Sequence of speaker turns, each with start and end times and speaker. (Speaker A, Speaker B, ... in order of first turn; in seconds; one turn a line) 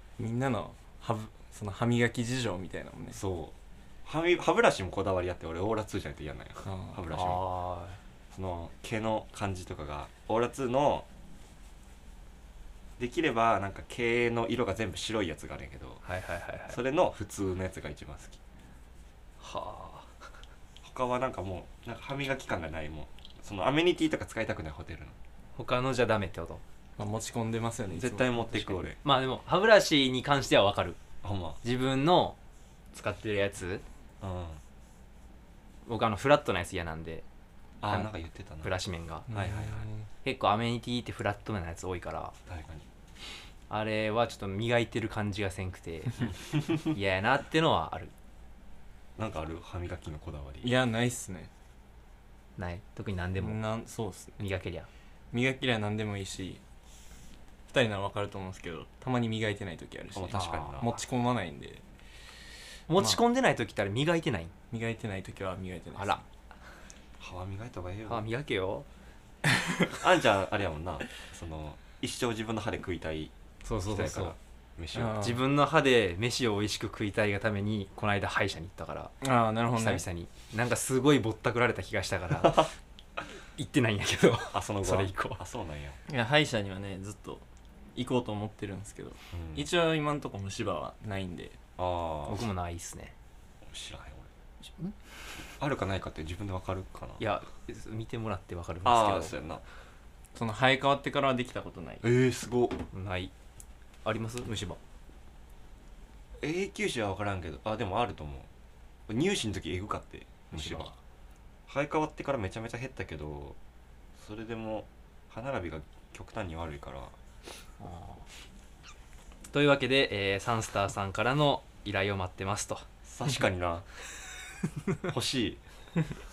Speaker A: 0.2-3.2
Speaker B: 3.1-7.4
Speaker A: 6.7-7.0
Speaker C: 7.1-8.0
Speaker B: 8.3-11.1
Speaker B: 13.0-16.0
Speaker C: 16.1-16.8
Speaker B: 16.7-18.4
Speaker C: 19.4-20.1
Speaker B: 20.8-25.2
Speaker C: 25.6-26.6
Speaker A: 27.0-28.9
Speaker B: 27.9-29.0
Speaker C: 29.0-31.0
Speaker B: 31.2-31.6
Speaker C: 31.6-32.4
Speaker C: 32.9-33.8
Speaker B: 34.2-34.6
Speaker C: 35.9-37.2
Speaker B: 37.8-38.7
Speaker C: 38.6-39.3
Speaker A: 39.3-40.0
Speaker B: 39.3-39.9
Speaker C: 40.2-42.4
Speaker B: 42.5-42.9
Speaker C: 43.7-48.1
Speaker B: 49.2-50.7
Speaker A: 50.6-51.5
Speaker C: 52.6-53.6
Speaker A: 53.4-54.4
Speaker C: 54.4-54.9
Speaker A: 55.3-56.6
Speaker A: 57.7-61.8
Speaker B: 60.1-60.9
Speaker C: 60.3-61.0
Speaker C: 62.9-64.5
Speaker A: 64.7-66.2
Speaker C: 66.0-66.2
Speaker B: 67.2-68.3
Speaker C: 68.1-68.9
Speaker B: 69.9-73.3
Speaker C: 73.7-74.4
Speaker B: 73.8-75.3
Speaker A: 75.0-75.4
Speaker C: 75.2-79.2
Speaker A: 79.2-80.0
Speaker C: 79.7-82.7
Speaker B: 82.4-82.7
Speaker C: 83.6-85.4
Speaker B: 84.5-86.0
Speaker A: 86.1-87.4
Speaker A: 88.0-91.6
Speaker B: 89.3-89.7
Speaker B: 91.8-92.4
Speaker C: 92.3-93.1
Speaker B: 93.6-94.3
Speaker B: 95.5-97.2
Speaker C: 97.2-99.3
Speaker B: 98.8-99.6
Speaker A: 100.3-102.0
Speaker B: 102.0-102.8
Speaker C: 102.9-103.3
Speaker C: 104.0-104.8
Speaker B: 106.4-108.5
Speaker B: 109.1-110.9
Speaker C: 110.5-111.0
Speaker B: 111.7-113.6
Speaker B: 114.2-117.2
Speaker C: 117.8-118.2
Speaker C: 119.5-122.9
Speaker B: 123.1-123.9
Speaker B: 125.0-125.6